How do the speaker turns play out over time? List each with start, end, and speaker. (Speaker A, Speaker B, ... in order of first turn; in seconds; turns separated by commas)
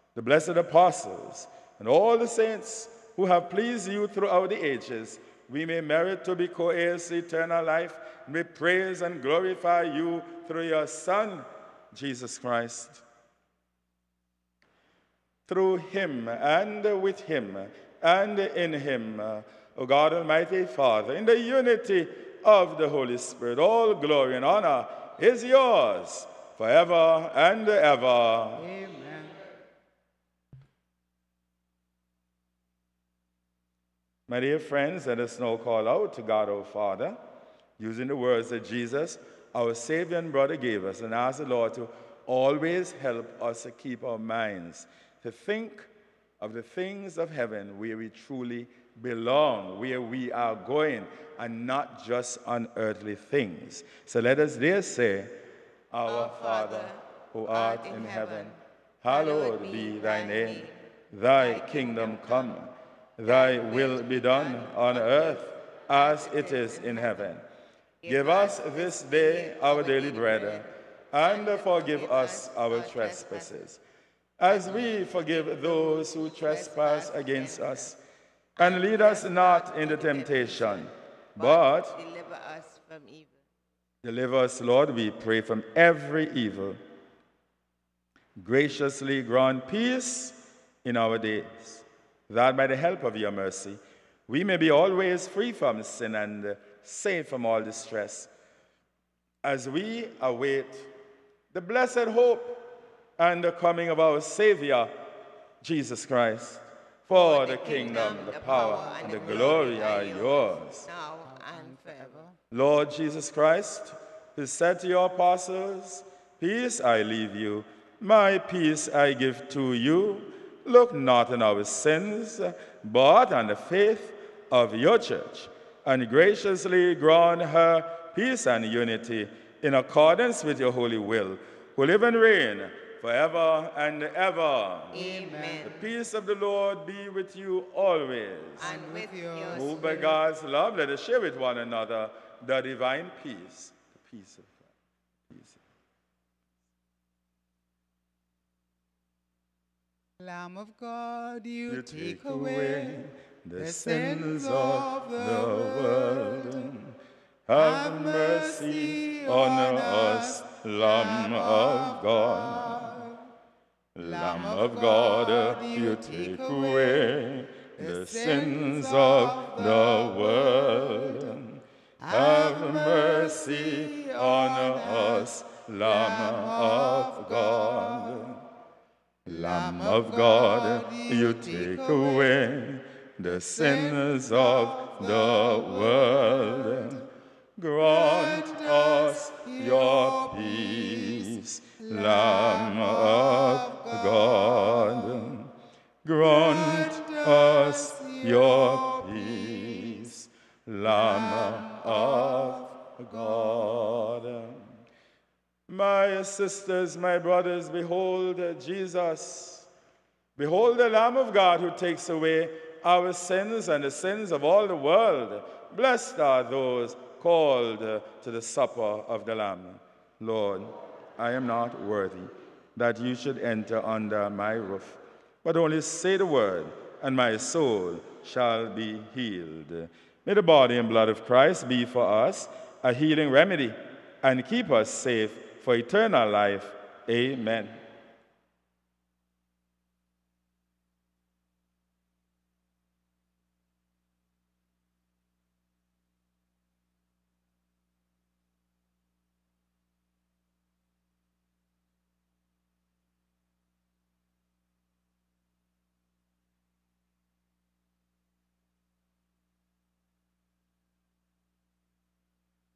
Speaker A: 0.1-13.0, Speaker A: 15.5-28.7, Speaker B: 28.6-29.4, Speaker A: 34.3-37.2, Speaker A: 37.8-67.4, Speaker C: 56.0-60.8, Speaker C: 61.4-62.6, Speaker C: 63.2-67.3, Speaker C: 68.0-73.5, Speaker A: 68.0-73.8, Speaker A: 74.4-78.0, Speaker C: 74.5-77.8, Speaker C: 78.5-83.4, Speaker A: 78.6-81.9, Speaker A: 84.0-86.8, Speaker A: 88.4-98.3, Speaker A: 99.4-100.9, Speaker A: 101.5-105.0, Speaker A: 105.6-110.9, Speaker C: 107.1-112.2, Speaker B: 107.6-110.2, Speaker B: 111.2-112.3, Speaker A: 112.5-135.0, Speaker C: 134.9-135.8, Speaker B: 134.9-135.7, Speaker A: 135.6-138.7, Speaker C: 138.6-140.2, Speaker B: 138.6-140.1, Speaker A: 139.5-144.7, Speaker A: 145.3-145.6, Speaker B: 150.2-153.1, Speaker A: 151.7-156.9, Speaker B: 153.6-156.7, Speaker A: 157.5-163.1, Speaker B: 157.5-163.3, Speaker A: 163.9-178.4, Speaker B: 164.0-167.2, Speaker B: 167.8-171.4, Speaker B: 172.0-175.3, Speaker B: 175.8-178.3, Speaker B: 179.2-182.5, Speaker A: 179.2-195.5, Speaker B: 183.3-187.1, Speaker B: 187.8-195.4, Speaker A: 196.0-204.8, Speaker B: 196.2-200.1, Speaker B: 200.8-203.9, Speaker A: 205.7-209.7, Speaker A: 210.4-237.8